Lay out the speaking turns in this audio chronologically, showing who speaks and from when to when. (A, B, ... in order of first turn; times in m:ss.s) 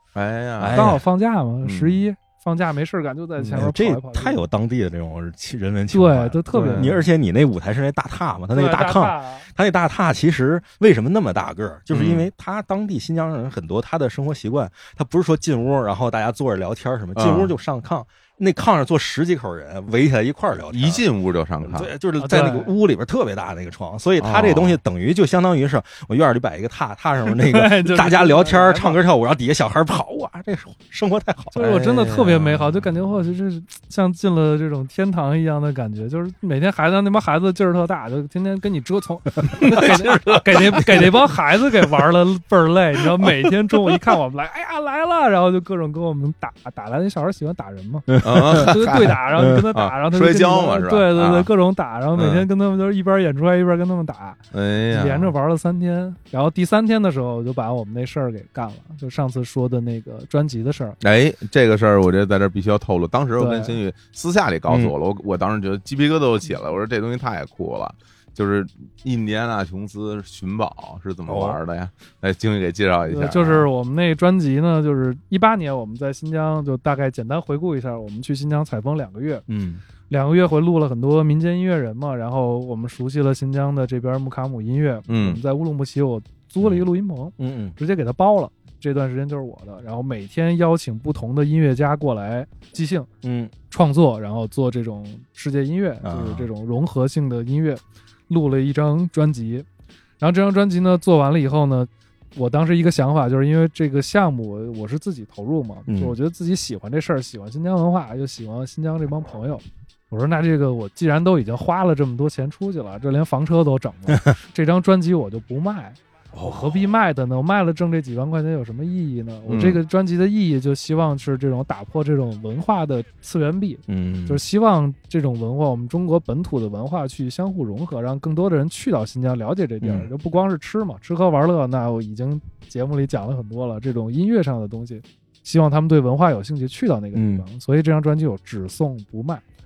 0:00.1-0:00.9 A
0:00.6-0:01.0 B
0:00.7-0:04.5 C
0:01.6-0:02.0 A
0:03.4-0:03.6 A
0:03.5-0:21.0 B
0:05.9-0:07.0 C
0:06.5-0:07.0 A
0:08.5-0:09.5 C
0:11.9-0:12.3 A
0:17.2-0:17.5 A
0:20.7-0:21.9 A
0:21.6-0:31.6 B
0:22.2-0:22.7 C
0:24.2-0:24.8 A
0:27.3-0:29.0 C
0:31.5-1:01.0 C
0:31.6-0:32.7 A
0:39.6-0:40.8 A
0:40.8-0:41.1 B
0:48.1-0:49.6 B
0:48.2-0:51.5 A
0:52.1-0:52.5 A
0:54.5-0:55.3 A
1:01.0-1:13.7 A
1:03.4-1:03.8 C
1:04.7-1:04.9 B
1:11.2-1:11.6 B
1:13.1-1:19.4 C
1:19.5-1:19.8 B
1:20.1-1:33.1 C
1:25.1-1:25.4 A
1:26.6-1:26.8 B
1:27.4-1:27.8 B
1:33.2-1:33.5 B
1:33.7-1:39.6 C
1:36.0-1:36.5 B
1:40.2-2:19.4 C
1:45.9-1:46.2 B
1:56.3-1:56.8 B
1:59.5-1:59.8 A
2:03.9-2:04.4 B
2:09.8-2:10.1 B
2:17.1-2:17.4 B